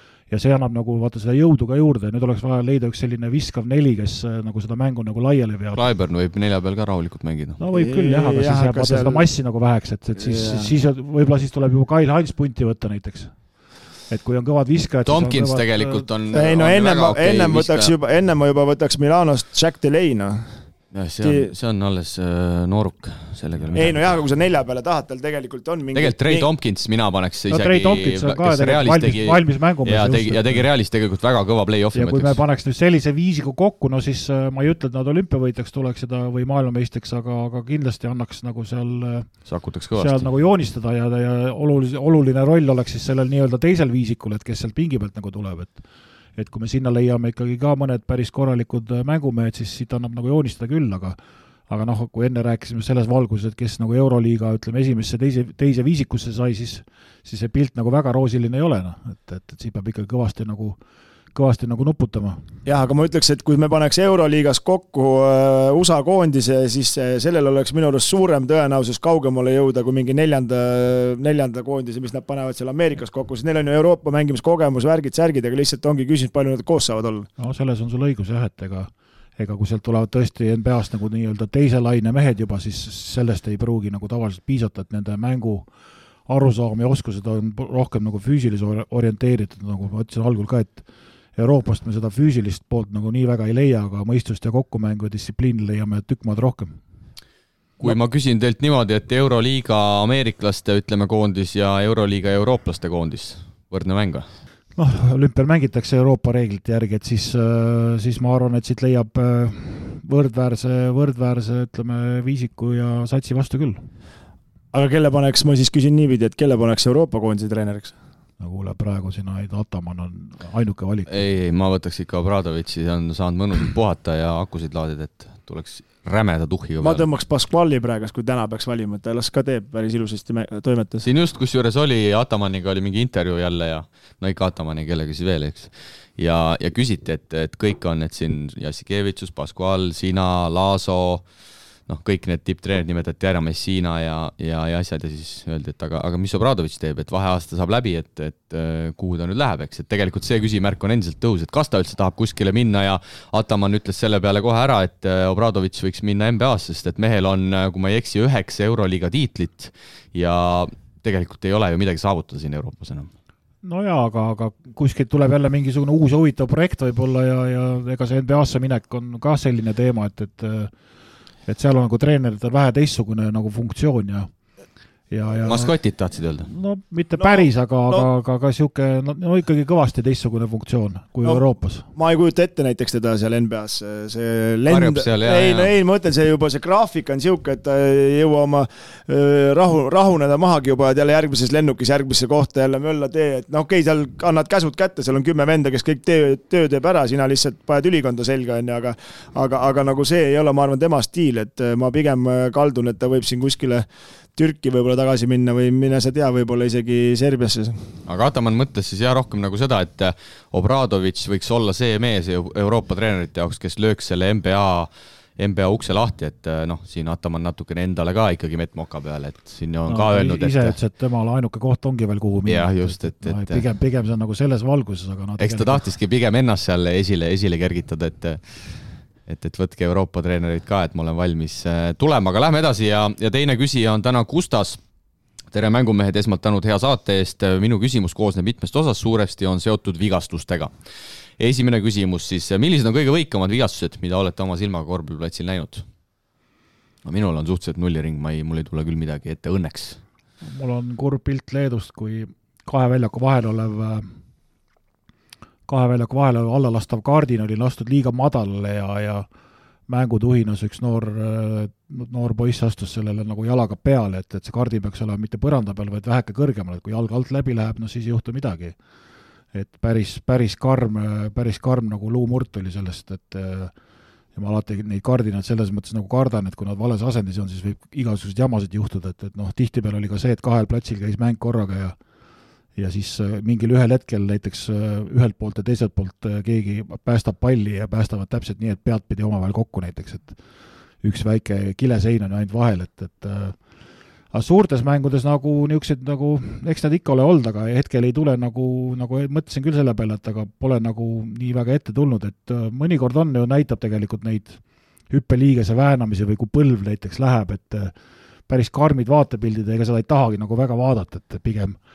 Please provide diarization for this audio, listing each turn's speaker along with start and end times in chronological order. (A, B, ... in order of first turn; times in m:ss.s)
0:00.3-0:05.8 A
0:05.7-0:07.6 B
0:07.6-0:13.4 A
0:07.7-0:09.3 C
0:10.2-0:10.7 C
0:14.1-0:16.0 A
0:15.0-0:17.9 B
0:16.3-0:20.6 C
0:20.9-0:24.2 B
0:21.2-0:21.5 C
0:23.7-0:26.5 C
0:25.9-0:32.4 B
0:27.5-0:30.7 A
0:31.9-0:39.4 A
0:39.4-0:40.3 B
0:40.0-0:45.8 A
0:46.4-0:51.2 A
0:51.7-1:00.8 A
1:01.3-1:02.4 A
1:02.6-1:17.3 C
1:17.4-1:25.7 A
1:26.3-1:30.8 A
1:31.4-1:36.8 A
1:37.8-1:44.2 B
1:44.8-1:53.9 A
1:54.7-1:57.9 C
1:58.4-2:01.1 A
2:01.1-2:07.0 B
2:06.8-2:11.0 C
2:11.0-2:21.2 B
2:21.9-2:43.1 B
2:43.6-2:50.7 A
2:51.4-2:54.3 A
2:55.1-2:55.7 A
2:55.4-2:56.5 B
2:56.4-3:01.9 A
2:57.2-2:58.1 C
3:01.2-3:27.8 C
3:04.7-3:05.7 B
3:28.0-3:40.8 B
3:39.9-3:45.9 A
3:42.4-3:43.6 B
3:45.4-3:54.8 B
3:55.5-4:00.7 B
4:01.4-4:05.8 B
4:07.0-4:10.0 B
4:10.4-4:14.1 A
4:15.7-4:19.2 A
4:19.9-4:28.8 A
4:29.5-4:33.7 A
4:34.3-4:42.0 A
4:42.8-4:50.4 A
4:51.0-4:53.6 A
4:54.3-5:07.9 A
5:08.5-5:11.8 A